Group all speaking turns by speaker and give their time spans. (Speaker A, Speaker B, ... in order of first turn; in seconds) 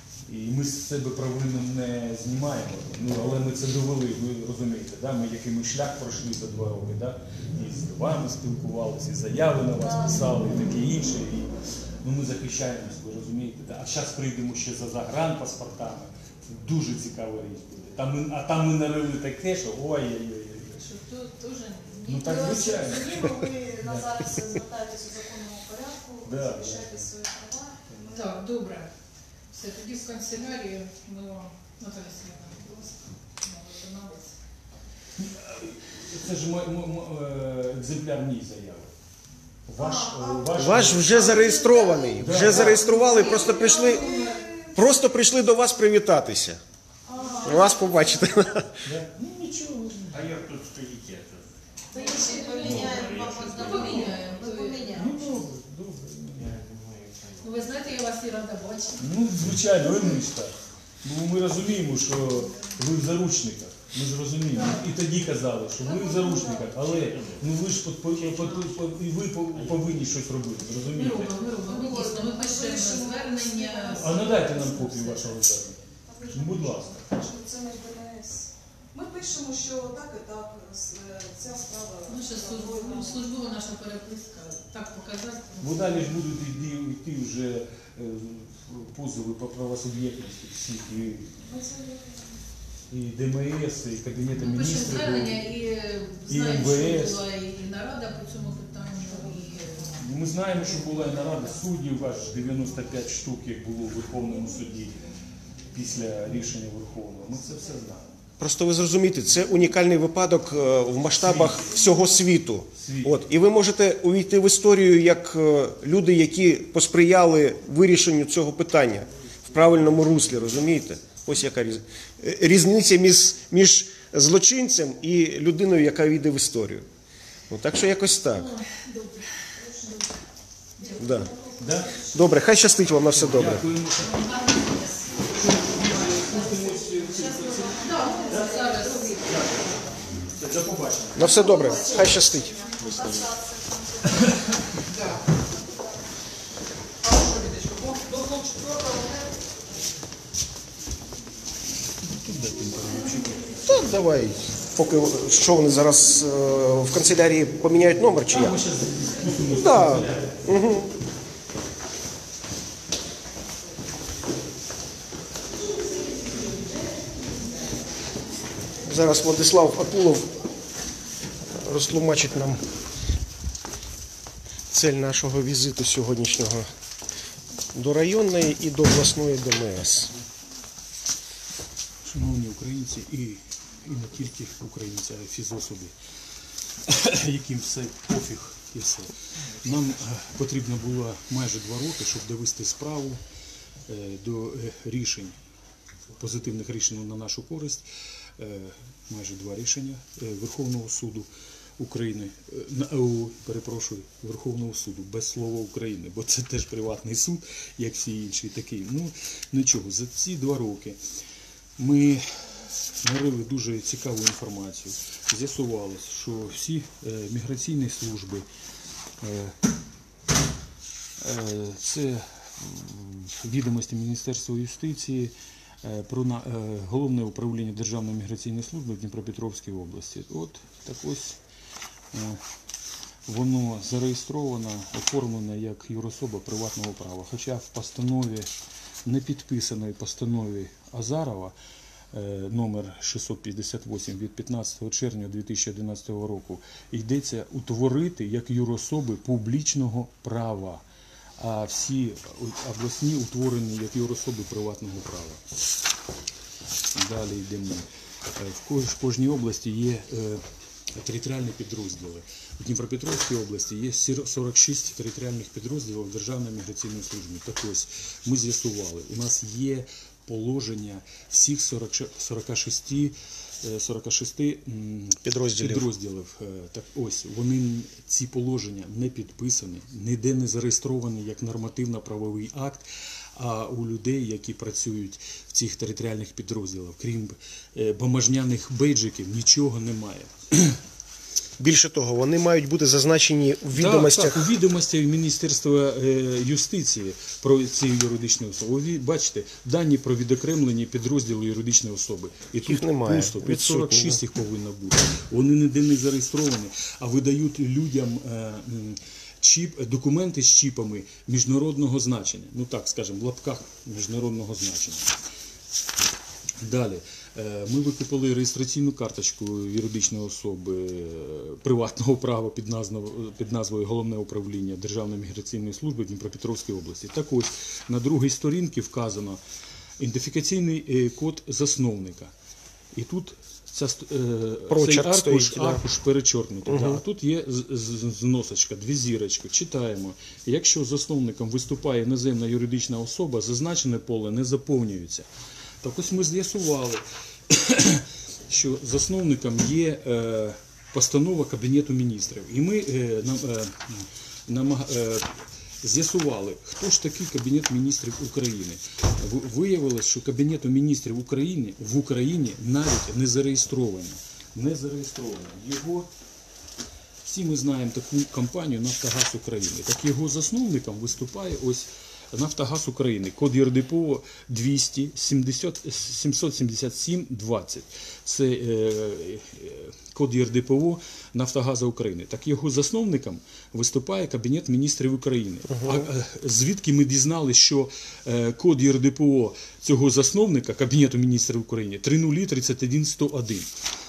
Speaker A: 0.2-20.9, 22.1-24.3, 26.2-27.0, 35.2-38.9, 39.6-41.5, 42.1-43.0, 48.8-50.2, 52.6-53.0, 54.9-56.5, 59.0-71.3, 73.9-77.0, 85.6-91.4, 92.9-95.5, 96.3-97.2, 100.0-105.0, 105.7-108.1, 111.1-111.8, 112.8-113.2, 131.6-132.3, 132.8-134.3, 135.3-139.7, 140.2-141.6, 142.8-143.3, 144.1-144.5, 152.0-153.6, 158.1-160.5, 182.0-185.9, 186.8-193.2, 193.9-195.3, 196.2-197.8, 198.4-201.3, 201.8-211.0, 211.8-212.4, 213.0-218.4, 219.2-219.6, 221.2-231.4, 232.1-232.4, 233.3-238.5, 239.0-241.5, 242.1-250.8, 251.4-255.4, 256.9-260.4, 260.9-290.8, 293.7-315.2, 316.6-329.4, 330.0-332.3, 332.9-345.2, 345.8-366.1, 367.2-393.7
Speaker B: 9.8-10.5, 22.1-28.4, 39.8-44.9, 47.0-48.6, 51.9-55.3, 65.8-66.8, 71.6-75.2, 76.0-83.3, 91.5-92.4, 99.1-99.9, 129.6-130.0, 130.8-132.0, 134.9-139.4, 141.2-144.6, 147.0-149.3
Speaker C: 20.8-22.8, 28.1-28.9, 29.5-34.3, 42.5-44.5, 51.9-55.2, 57.4-59.1, 70.9-74.7, 82.0-86.1, 94.3-99.9, 128.3-129.5, 130.8-131.3, 134.0-136.5, 137.8-139.9, 144.9-145.2
Speaker D: 40.5-44.1, 44.7-46.6, 47.4-48.8, 108.4-126.8, 127.5-128.5, 131.0-131.3, 132.1-133.7, 141.1-142.6, 153.6-158.6, 159.5-160.9, 168.8-170.4, 171.5-172.6, 174.7-176.7, 177.7-180.1, 275.2-275.9, 291.6-294.4, 302.6-304.2, 334.7-335.8, 336.7-337.0, 385.7-386.1
Speaker E: 50.1-54.6, 56.3-58.0, 66.8-67.5, 68.1-68.9, 69.5-70.1